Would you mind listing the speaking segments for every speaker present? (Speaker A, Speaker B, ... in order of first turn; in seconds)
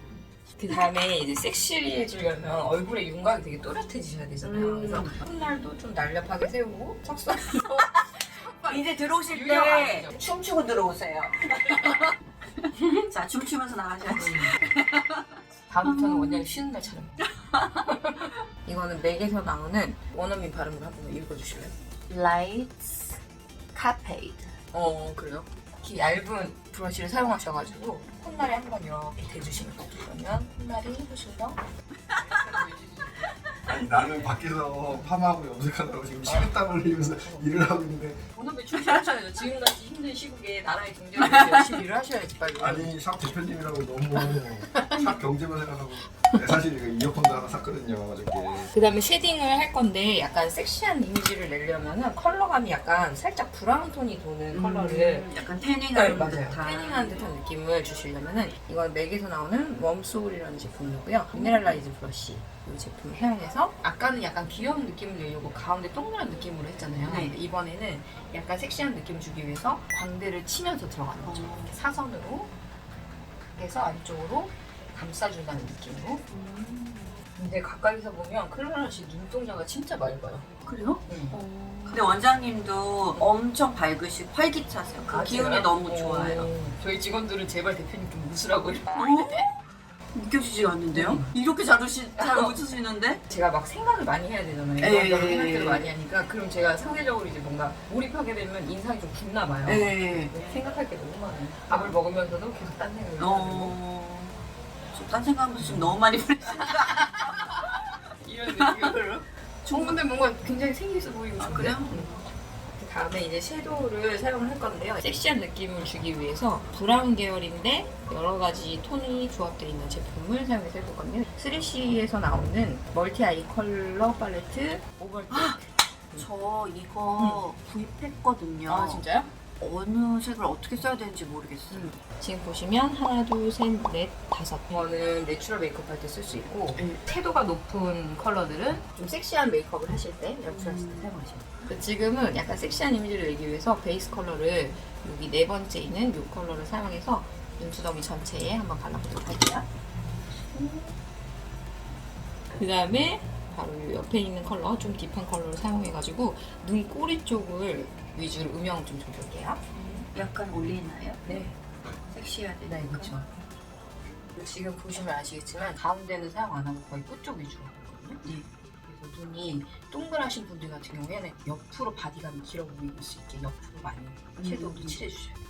Speaker A: 0.6-10.2, 14.1-14.6, 15.7-17.3, 17.8-21.8, 24.7-31.6, 32.1-33.4, 34.9-35.2, 36.3-36.5, 37.2-37.5, 38.3-42.9, 44.3-45.2, 48.7-55.3, 55.9-72.5, 73.5-76.2, 77.4-80.5, 81.1-81.4, 85.1-89.4, 90.9-91.3, 92.2-92.5, 93.3-103.8, 105.6-106.0, 106.6-112.2, 112.8-126.3, 127.2-127.5, 128.7-129.3, 131.7-149.7, 152.5-159.7, 161.2-161.6, 162.7-163.3, 164.3-168.2, 168.8-175.4
Speaker B: 4.4-5.3, 7.5-8.1, 8.7-12.2, 12.9-15.3, 15.8-16.4, 17.3-17.9, 22.1-23.2, 23.7-24.5, 32.1-32.6, 33.5-34.3, 38.9-39.2, 54.5-57.2, 61.3-61.8, 67.0-67.3, 71.3-71.8, 76.3-77.2, 80.7-86.5, 88.9-89.5, 90.1-93.2, 94.8-95.9, 99.7-100.6, 101.7-101.9, 103.2-104.4, 104.9-107.5, 108.5-109.0, 109.7-110.0, 111.4-112.2, 125.3-125.6, 126.1-129.0, 129.6-131.9, 136.8-137.0, 140.5-141.7, 150.6-150.9, 159.8-161.5, 162.1-163.2, 174.4-175.0
Speaker C: 33.7-38.2, 42.6-48.7